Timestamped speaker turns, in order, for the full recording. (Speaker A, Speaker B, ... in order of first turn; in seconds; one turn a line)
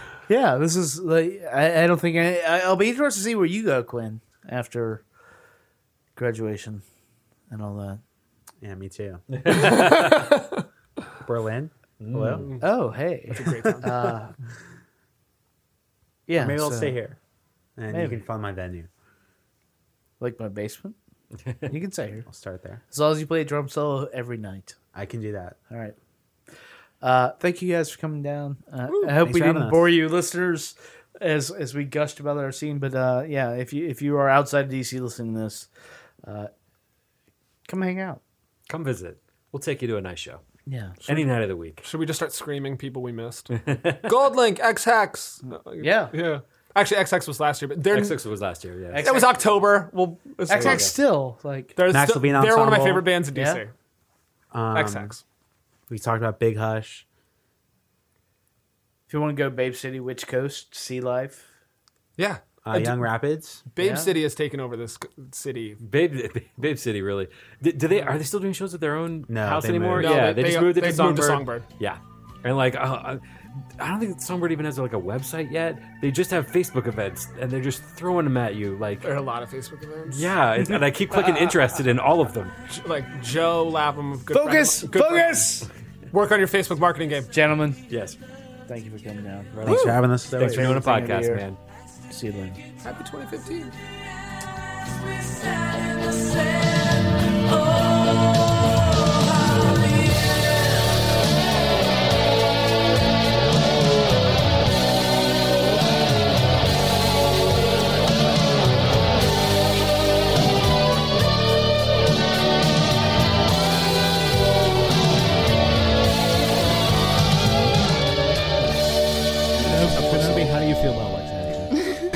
Speaker A: 0.3-5.0
Speaker A: 6.2-6.8
Speaker A: 7.5-8.0
Speaker B: 8.6-9.2
Speaker C: 9.3-10.2
Speaker D: 9.6-10.3
Speaker B: 11.2-12.5
Speaker C: 12.0-12.4
Speaker D: 12.4-12.6
Speaker A: 12.6-14.3
Speaker D: 13.3-14.1
Speaker A: 16.3-17.0
Speaker B: 16.4-17.2
Speaker B: 17.8-18.9
Speaker A: 17.9-18.2
Speaker A: 20.2-20.9
Speaker A: 21.7-22.2
Speaker B: 22.3-22.8
Speaker A: 22.9-24.8
Speaker B: 24.9-25.6
Speaker A: 25.7-25.9
Speaker A: 27.0-35.7
Speaker B: 29.1-29.9
Speaker A: 36.2-36.5
Speaker A: 37.7-38.2
Speaker C: 38.7-40.4
Speaker A: 40.6-41.2
Speaker C: 41.0-41.8
Speaker D: 41.8-48.2
Speaker C: 43.6-44.0
Speaker A: 45.8-46.1
Speaker C: 47.9-49.0
Speaker A: 48.9-49.4
Speaker D: 49.0-50.9
Speaker A: 50.5-51.7
Speaker C: 50.5-50.9
Speaker D: 51.8-53.7
Speaker B: 51.9-53.0
Speaker A: 53.3-53.6
Speaker B: 54.5-55.1
Speaker D: 54.7-55.2
Speaker B: 55.9-57.0
Speaker A: 59.1-61.5
Speaker D: 62.2-63.1
Speaker B: 62.6-63.6
Speaker D: 63.7-65.8
Speaker A: 63.8-64.1
Speaker C: 65.8-73.2
Speaker B: 69.3-70.2
Speaker D: 70.0-71.7
Speaker C: 73.8-79.1
Speaker D: 79.0-80.3
Speaker C: 80.1-82.5
Speaker D: 81.1-81.6
Speaker D: 82.7-85.5
Speaker A: 84.3-85.7
Speaker D: 86.1-87.3
Speaker A: 87.3-87.8
Speaker C: 87.9-88.2
Speaker A: 88.7-91.5
Speaker C: 89.5-91.6
Speaker B: 89.6-90.8
Speaker A: 92.1-92.6
Speaker D: 92.8-93.8
Speaker A: 119.7-121.6